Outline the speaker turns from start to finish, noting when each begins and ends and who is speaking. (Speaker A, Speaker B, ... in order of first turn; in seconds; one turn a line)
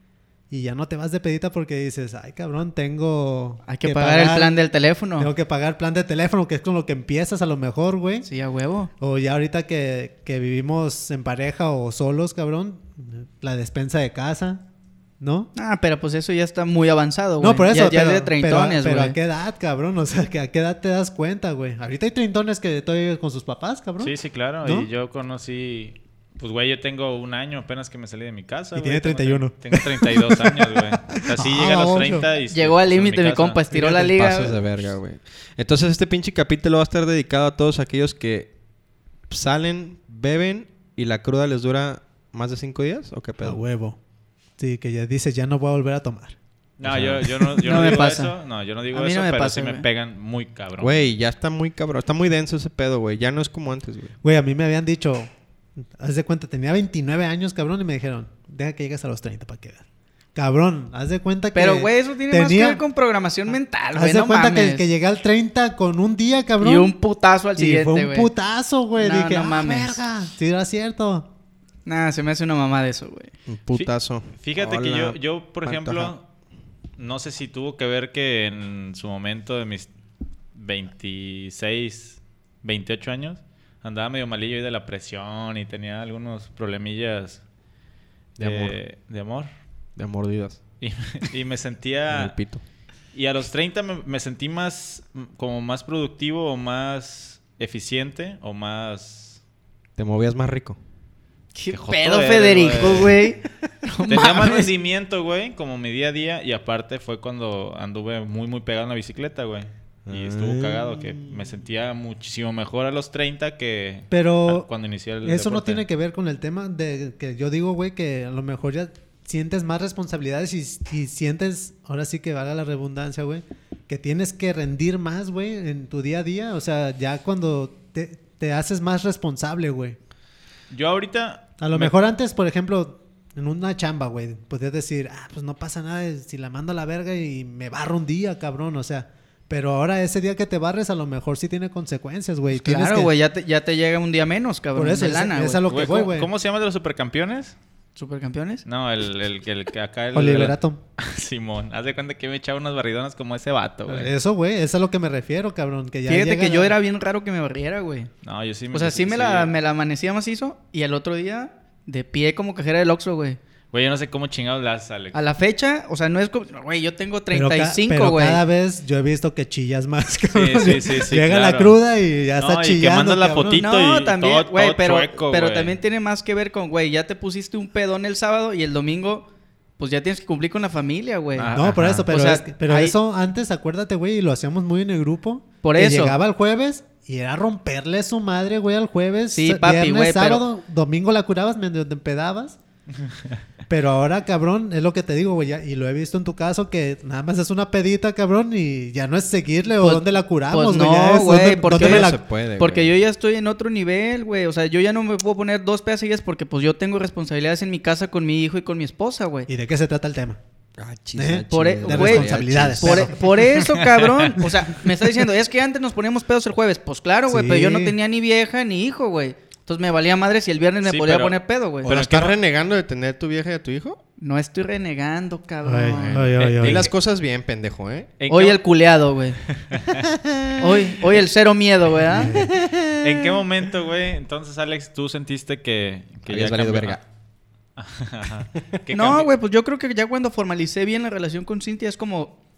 Speaker A: 0.5-4.6
Speaker B: 3.7-5.3
Speaker A: 5.2-8.3
Speaker B: 8.2-8.9
Speaker A: 9.0-14.7
Speaker A: 15.2-15.5
Speaker B: 15.6-19.2
Speaker A: 17.4-24.9
Speaker C: 24.0-33.6
Speaker A: 28.8-32.3
Speaker B: 32.5-34.5
Speaker A: 33.7-34.6
Speaker D: 34.0-38.5
Speaker D: 39.3-43.6
Speaker A: 43.4-44.0
Speaker A: 44.6-46.4
Speaker C: 46.8-51.1
Speaker D: 46.8-47.3
Speaker B: 47.6-48.3
Speaker B: 48.9-49.9
Speaker D: 50.8-54.1
Speaker A: 54.2-55.3
Speaker A: 56.0-59.8
Speaker A: 60.4-62.8
Speaker B: 61.5-64.9
Speaker A: 63.9-66.9
Speaker B: 66.6-68.3
Speaker A: 67.6-71.3
Speaker B: 69.0-70.0
Speaker B: 71.9-73.3
Speaker D: 73.5-76.1
Speaker C: 73.7-76.2
Speaker C: 77.0-79.9
Speaker C: 80.5-87.4
Speaker D: 88.4-88.8
Speaker C: 88.4-89.5
Speaker D: 90.0-90.6
Speaker C: 90.8-92.3
Speaker D: 92.1-92.6
Speaker C: 93.2-99.4
Speaker D: 100.0-100.8
Speaker B: 101.5-104.7
Speaker C: 101.7-103.2
Speaker C: 104.1-115.8
Speaker D: 110.1-111.5
Speaker A: 114.1-114.7
Speaker A: 115.2-130.0
Speaker C: 130.7-131.9
Speaker A: 131.6-143.1
Speaker B: 142.5-145.6
Speaker A: 144.8-146.3
Speaker C: 145.7-147.6
Speaker B: 148.0-148.7
Speaker C: 148.7-154.1
Speaker A: 150.1-150.8
Speaker A: 153.9-156.8
Speaker B: 156.1-158.1
Speaker C: 158.2-159.5
Speaker B: 158.7-163.4
Speaker C: 163.7-165.2
Speaker B: 165.1-168.4
Speaker A: 167.3-173.7
Speaker C: 170.3-171.8
Speaker C: 172.4-175.8
Speaker B: 173.6-179.3
Speaker B: 179.8-181.5
Speaker C: 181.4-182.1
Speaker A: 181.5-192.6
Speaker B: 182.1-182.9
Speaker B: 185.6-186.2
Speaker B: 189.3-190.4
Speaker A: 193.7-202.2
Speaker B: 199.8-209.5
Speaker D: 201.6-202.9
Speaker A: 209.5-210.4
Speaker D: 210.8-213.3
Speaker A: 211.2-213.3
Speaker B: 211.5-221.9
Speaker C: 213.6-214.4
Speaker A: 217.3-218.0
Speaker C: 220.8-222.3
Speaker D: 221.8-224.0
Speaker B: 224.2-226.3
Speaker A: 225.6-226.9
Speaker C: 225.9-226.9
Speaker D: 226.6-228.1
Speaker C: 228.2-228.6
Speaker B: 228.3-229.4
Speaker C: 229.5-230.1
Speaker B: 230.6-232.4
Speaker A: 232.1-232.6
Speaker D: 232.3-233.3
Speaker C: 233.0-237.0
Speaker D: 236.3-237.0
Speaker C: 237.8-239.3
Speaker B: 238.9-242.4